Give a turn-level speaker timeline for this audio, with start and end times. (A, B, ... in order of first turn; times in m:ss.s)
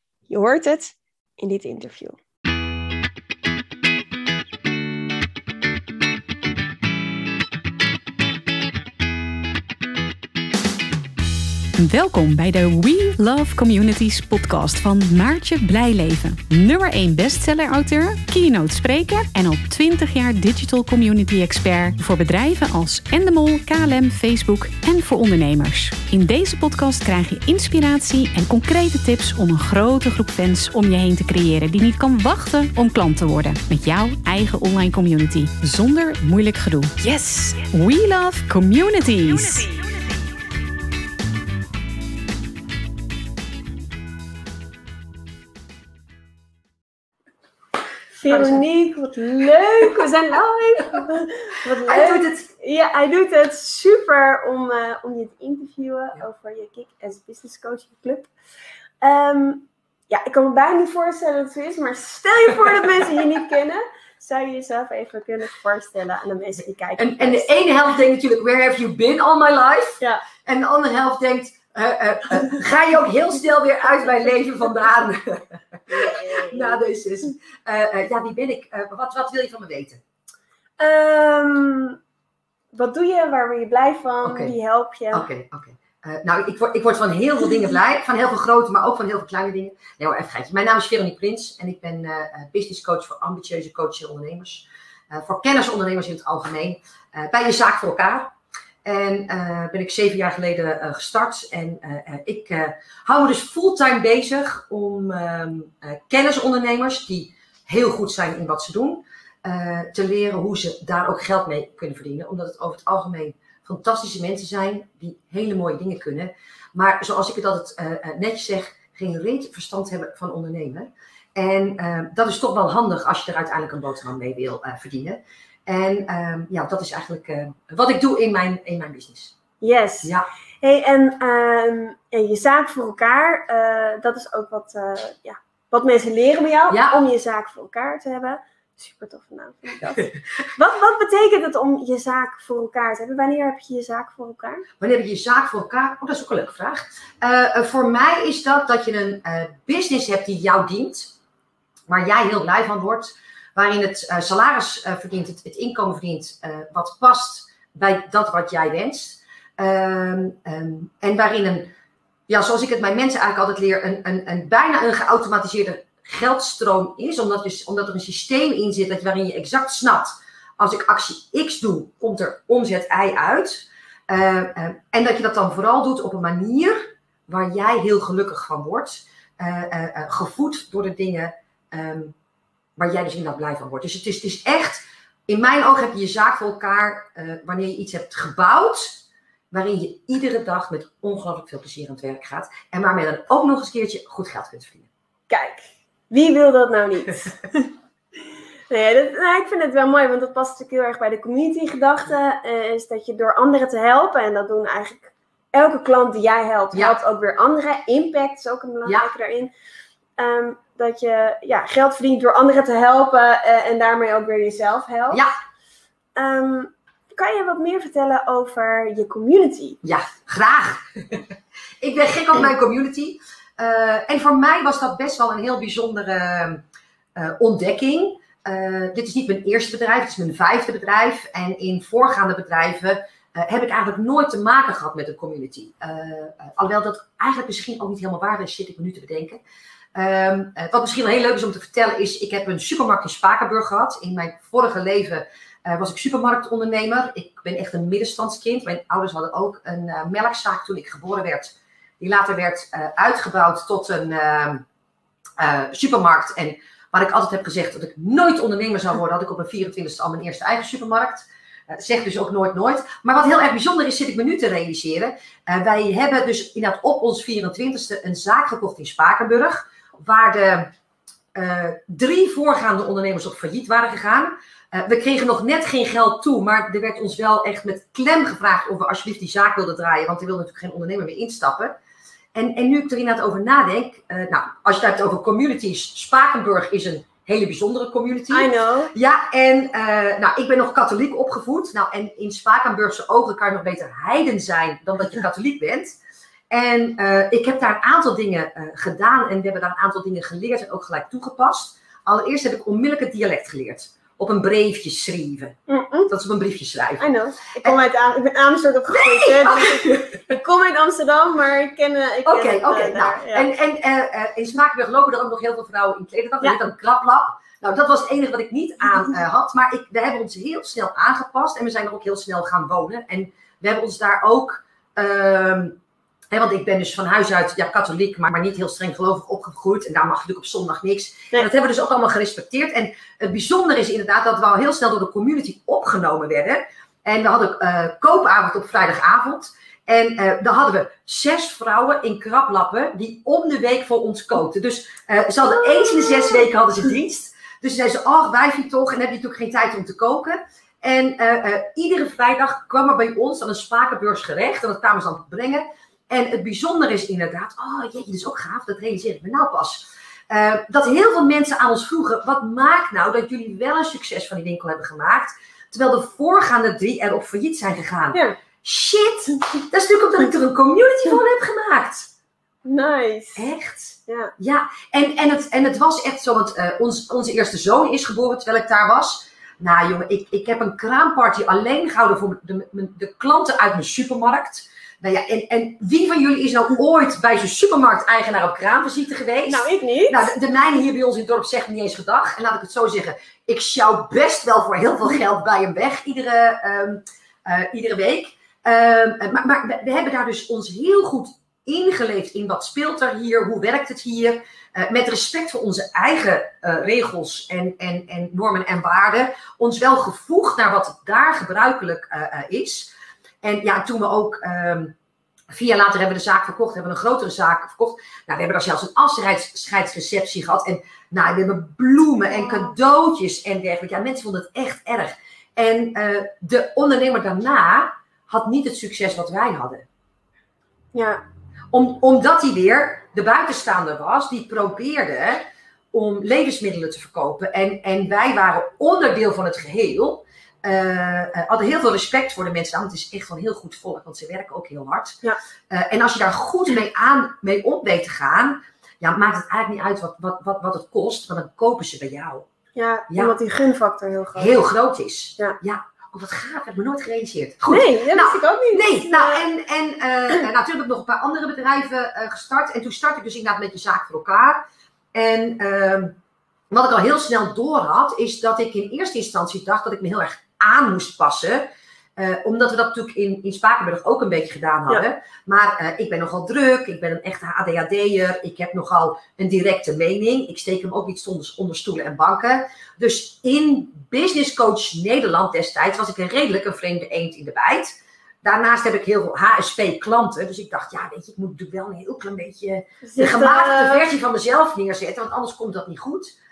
0:00.3-0:02.2 A
0:11.8-0:39.8 B
0:48.2-0:58.3 A
0:48.3-0:48.6 C
0:51.8-0:52.5 C
0:59.0-1:07.5 A
1:07.0-1:20.0 C
1:15.9-1:16.8 A
1:20.8-1:22.0 A
1:22.7-1:25.3 A
1:24.2-1:24.6 C
1:25.1-1:38.3 C
1:38.8-2:09.4 C
2:09.6-2:24.7 A
2:16.7-2:17.0 C
2:24.8-2:31.1 C
2:31.9-2:41.7 C
2:42.3-3:02.2 C
3:02.8-3:14.9 C
3:15.3-3:17.7 A
3:18.7-3:29.5 A
3:28.8-3:29.1 C
3:30.2-3:35.3 A
3:36.2-3:39.8 A
3:39.8-3:46.6 C
3:47.2-3:59.4 C
3:59.9-4:14.6 C
4:15.4-4:30.7 C
4:31.3-4:41.8 C
4:42.3-4:56.0 C
4:48.3-4:48.9 A
4:56.5-5:05.6 C
5:05.7-5:06.1 A
5:06.1-5:07.0 C
5:07.0-5:13.5 A
5:08.9-5:10.2 C
5:12.2-5:25.8 C
5:26.3-6:12.1 C
5:45.7-5:46.4 A
6:12.6-6:13.5 A
6:13.4-6:52.9 C
6:14.1-6:14.3 A
6:29.5-6:30.3 A
6:53.4-6:55.0 C
6:55.5-7:09.9 C
7:10.9-7:11.2 A
7:11.7-7:32.5 C
7:32.8-7:34.6 A
7:33.1-7:33.4 C
7:34.4-7:44.6 C
7:37.7-7:39.4 A
7:45.1-7:46.2 C
7:46.7-8:16.3 C
8:13.0-8:14.0 A